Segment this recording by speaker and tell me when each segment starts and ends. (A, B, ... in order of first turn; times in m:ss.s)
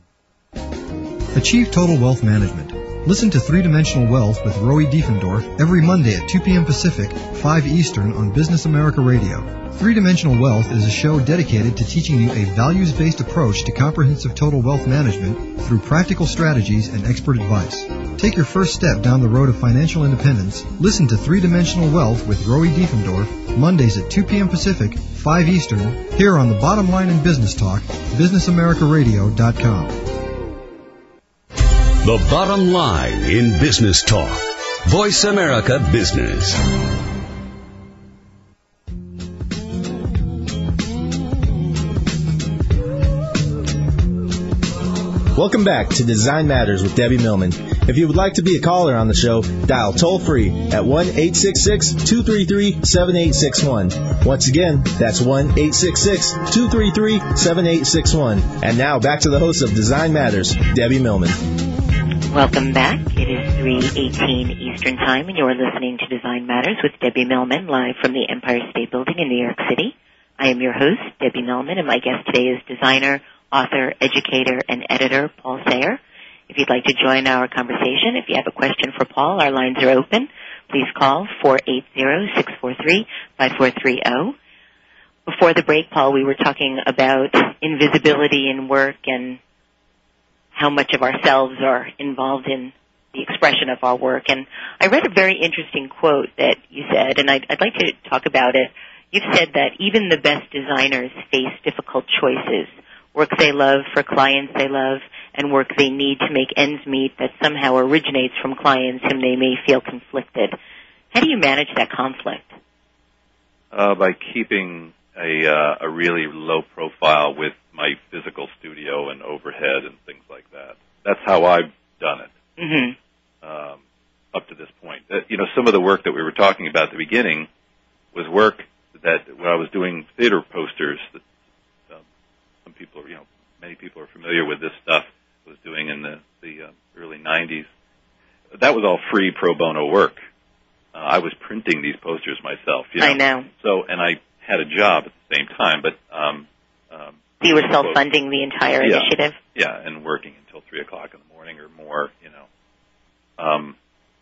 0:01.3-0:30.1 A
0:32.0-0:36.6 B
0:45.3-1:01.4 C
1:02.3-1:24.4 D
1:25.3-1:29.4 D
1:30.5-1:50.6 D
1:51.1-1:52.6 D
1:53.7-2:02.3 E
2:02.6-2:03.0 D
2:03.4-2:03.8 E
2:04.3-2:07.5 E
2:08.1-2:11.2 E
2:12.6-2:17.7 E
2:18.6-2:20.2 E
2:21.0-2:28.0 E
2:23.0-2:23.5 D
2:27.4-2:29.4 D
2:28.8-2:32.4 E
2:33.4-2:33.8 E